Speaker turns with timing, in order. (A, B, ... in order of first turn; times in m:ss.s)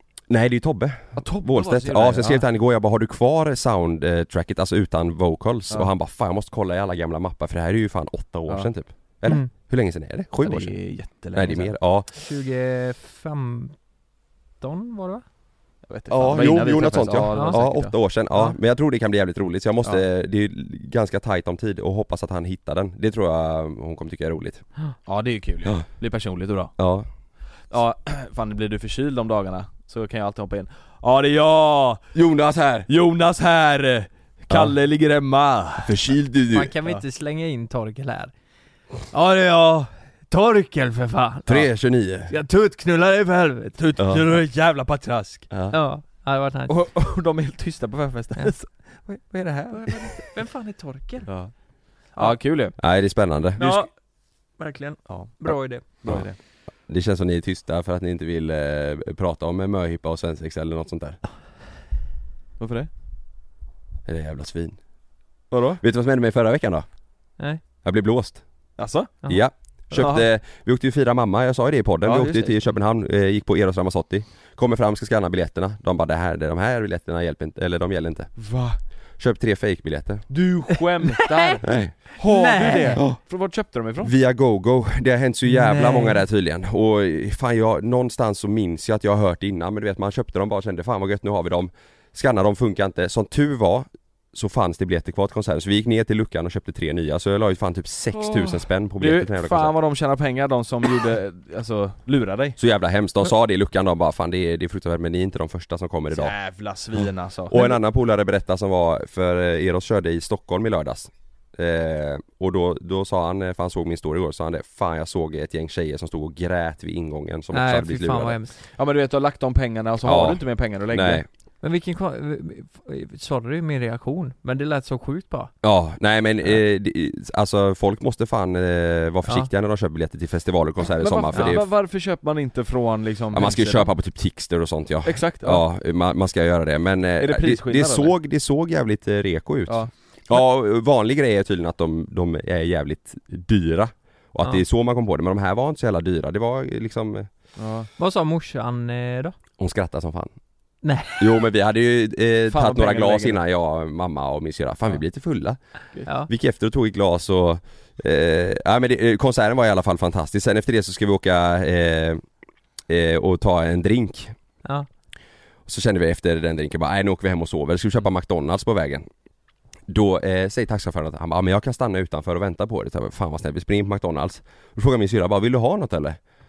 0:00.3-0:12.1 A
0:01.1-0:02.4 B
0:10.4-0:11.7 B
0:12.1-0:13.8 C
0:14.6-0:15.2 C
0:15.8-0:18.0 B
0:16.1-0:24.6 A
0:17.3-0:17.6 C
0:18.3-0:18.6 C
0:25.0-0:26.7 B
0:26.8-0:27.1 A
0:27.7-0:32.1 B
0:32.1-0:32.9 A
0:32.9-0:35.9 B
0:34.5-0:34.7 A
0:35.8-0:36.7 A
0:36.5-0:38.3 C
0:39.1-0:41.7 C
0:41.4-0:42.3 A
0:42.3-0:44.0 C
0:43.8-0:45.5 B
0:44.0-0:44.2 A
0:45.5-0:45.8 A
0:45.7-0:46.7 C
0:46.7-0:50.3 B
0:48.4-0:51.3 C
0:51.2-0:52.8 B
0:52.1-0:52.4 C
0:52.8-0:53.6 A
0:53.6-0:53.9 B
0:53.6-0:53.9 C
0:54.6-0:55.8 C
0:55.1-0:56.4 B
0:56.0-1:01.2 A
1:02.6-1:02.9 B
1:04.0-1:04.8 A
1:05.5-1:05.8 B
1:05.8-1:06.9 A
1:07.8-1:18.4 A
1:08.8-1:09.2 B
1:09.9-1:10.2 B
1:12.0-1:12.7 B
1:18.4-1:18.8 B
1:19.2-1:20.2 A
1:20.3-1:24.1 B
1:21.6-1:23.2 A
1:22.2-1:23.0 C
1:24.0-1:39.7 A
1:25.4-1:26.2 C
1:38.2-1:42.6 B
1:42.6-1:46.3 A
1:46.1-1:47.6 B
1:47.0-1:58.4 A
1:57.5-1:58.5 C
1:58.6-2:01.2 B
2:00.0-2:01.2 A
2:01.6-2:05.5 C
2:05.6-2:11.7 A
2:09.2-2:09.5 C
2:11.0-2:13.9 B
2:13.3-2:27.3 A
2:15.0-2:15.6 B
2:17.2-2:18.1 B
2:27.6-2:27.9 B
2:28.0-2:29.3 C
2:29.6-2:30.3 A
2:30.8-2:31.4 C
2:31.2-2:42.2 A
2:32.5-2:33.4 B
2:36.0-2:36.3 C
2:42.9-2:44.3 A
2:45.6-2:49.1 A
2:49.9-2:56.2 A